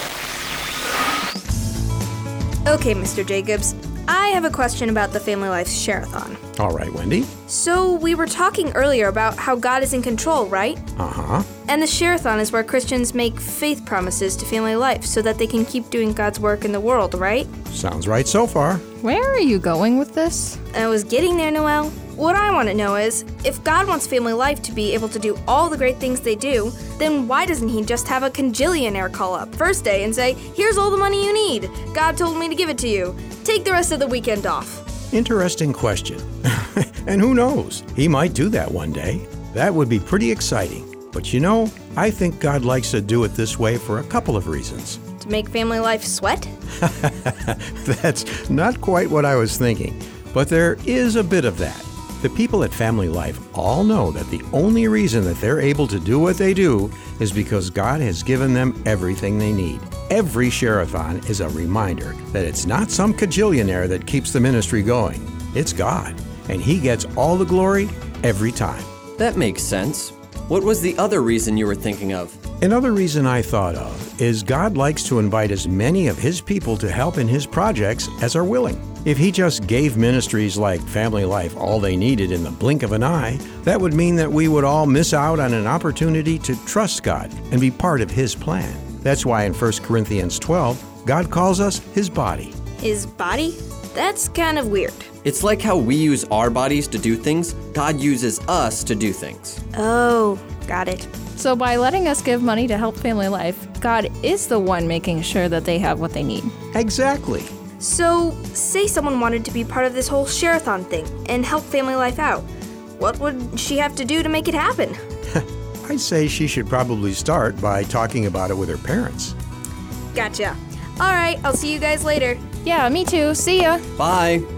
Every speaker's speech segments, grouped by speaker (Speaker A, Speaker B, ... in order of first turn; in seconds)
Speaker A: 2.6-6.4, 7.5-10.8, 11.6-17.5, 20.7-34.8, 45.2-46.5, 92.8-95.1, 99.7-101.1, 107.8-115.0, 120.1-122.4
Speaker B: 6.6-7.3, 11.0-11.5, 17.7-18.8, 35.1-45.0, 46.8-68.9, 72.6-92.5, 106.7-107.5, 115.3-119.3
Speaker C: 19.0-20.6, 101.3-106.5, 122.6-123.8
Speaker D: 69.2-72.4, 95.2-99.6, 124.0-124.5